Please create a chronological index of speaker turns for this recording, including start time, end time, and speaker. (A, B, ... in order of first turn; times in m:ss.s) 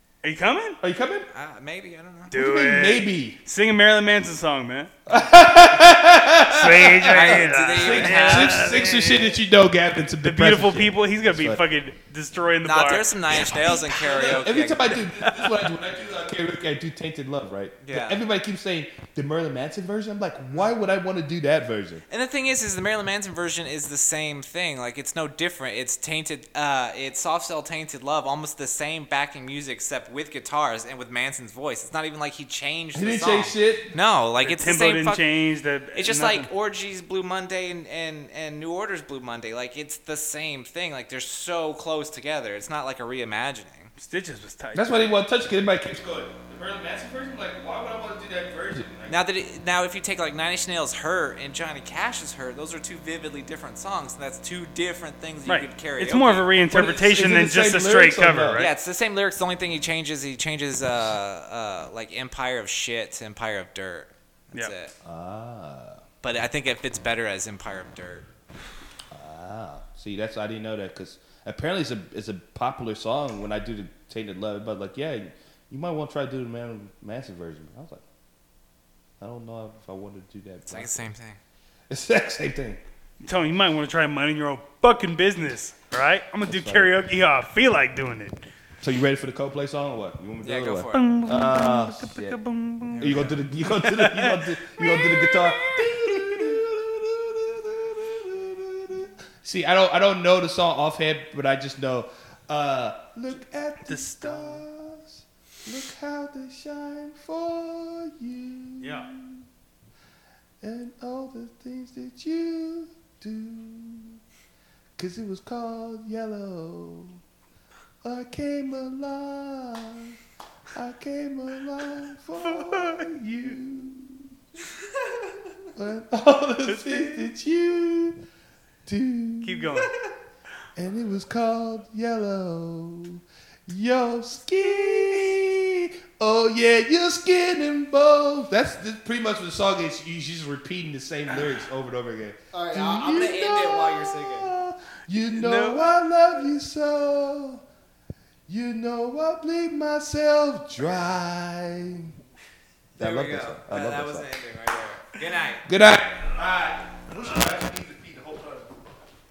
0:00.2-0:00.8 A
0:00.8-0:01.3 B
0:01.3-0:02.3 C
0:02.3-0:04.9 A
0:02.3-0:03.4 B
0:05.1-0:11.6 B
0:06.5-0:09.4 A
0:07.1-0:08.7 C
0:10.2-0:13.1 A
0:12.6-0:15.0 C
0:13.3-0:22.0 B
0:15.2-0:15.5 A
0:17.8-0:18.2 C
0:22.1-0:35.2 C
0:32.9-0:33.9 B
0:34.4-0:36.5 A
0:35.9-0:43.9 C
0:44.0-0:45.0 A
0:44.7-0:49.1 B
0:49.1-0:56.5 C
0:55.4-0:58.7 A
0:56.7-0:58.7 B
0:58.6-1:04.9 C
1:05.0-1:06.0 B
1:06.2-1:08.3 C
1:09.1-1:18.0 B
1:19.2-1:21.0 B
1:20.7-1:21.4 C
1:21.9-1:22.8 B
1:23.2-1:28.4 A
1:26.5-1:26.9 B
1:28.8-1:32.4 B
1:30.4-1:31.0 C
1:30.9-1:33.1 A
1:32.9-1:33.4 C
1:32.9-1:49.4 B
1:33.7-1:36.6 A
1:43.9-1:44.6 A
1:48.8-1:49.1 A
1:50.6-1:54.2 B
1:55.0-1:57.2 B
1:58.0-2:00.2 B
2:00.7-2:04.3 B
2:02.6-2:03.0 A
2:05.7-2:08.2 B
2:06.6-2:07.3 A
2:08.9-2:09.8 B
2:09.4-2:09.9 A
2:10.8-2:27.6 B
2:22.5-2:24.5 C
2:25.3-2:26.0 A
2:28.5-2:32.1 B
2:33.0-2:34.3 B
2:33.0-2:35.6 C
2:35.6-2:38.7 B